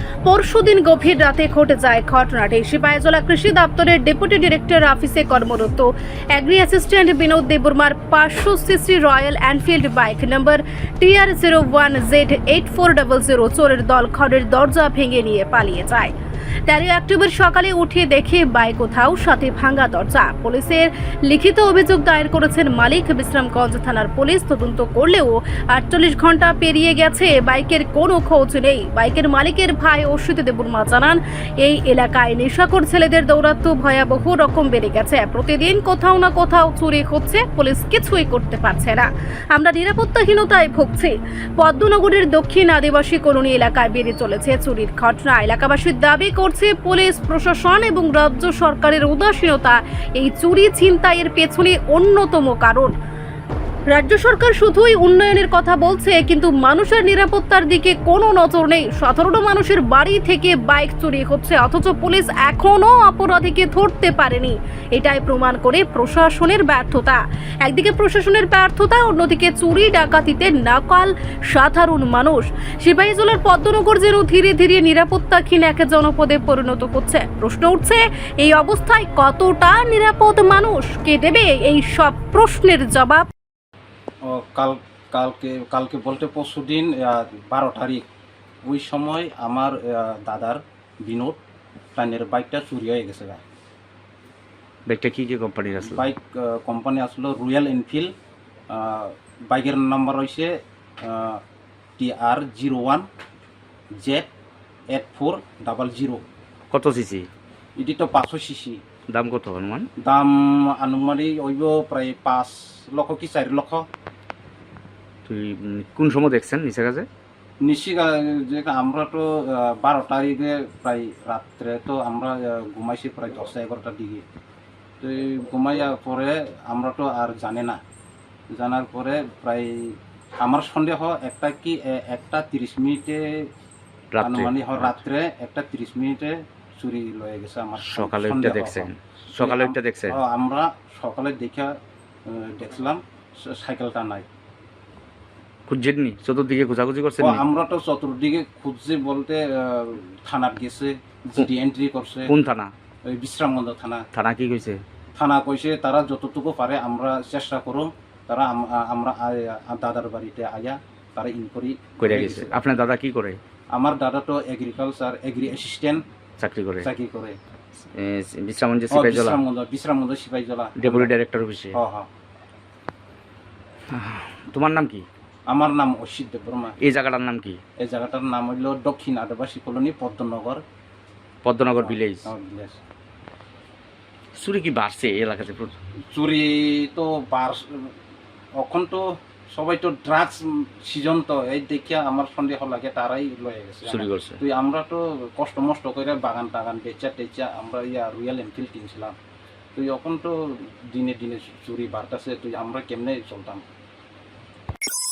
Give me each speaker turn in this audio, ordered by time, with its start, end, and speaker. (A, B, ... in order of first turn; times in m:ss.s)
0:00.2-0:16.1 A
0:16.7-0:52.9 A
0:53.9-1:23.3 A
1:24.3-1:28.1 B
1:28.6-1:31.4 B
1:32.0-1:33.4 B
1:34.9-1:36.0 C
1:35.8-1:38.1 B
1:38.7-1:41.4 B
1:42.0-1:43.1 B
1:44.0-1:44.3 B
1:44.9-1:46.2 B
1:46.7-1:47.3 C
1:47.8-1:48.8 B
1:49.1-1:49.9 C
1:50.0-1:53.8 B
1:55.3-1:57.1 C
1:57.6-2:04.2 B
2:05.0-2:07.8 B
2:08.5-2:13.5 B
2:14.1-2:15.0 C
2:14.2-2:21.7 B
2:17.8-2:20.2 C
2:22.3-2:24.3 B
2:25.7-2:27.4 C
2:27.2-2:32.3 B
2:32.3-2:32.7 C
2:33.1-2:34.1 B
2:34.1-2:34.8 C
2:35.2-2:42.6 B
2:42.0-2:43.4 C
2:43.7-2:46.0 B
2:46.4-2:46.9 C
2:46.8-2:47.4 B
2:47.8-2:49.4 C
2:48.9-2:51.1 B
2:50.8-2:51.8 C
2:51.7-2:52.1 B
2:53.9-2:55.0 C
2:55.5-2:56.8 B
2:56.8-2:57.6 C
2:57.8-3:00.6 B
3:01.4-3:02.3 C
3:01.8-3:02.8 B
3:04.4-3:05.7 C
3:06.1-3:07.9 B
3:08.6-3:19.2 B
3:13.9-3:14.4 C
3:19.8-3:23.6 B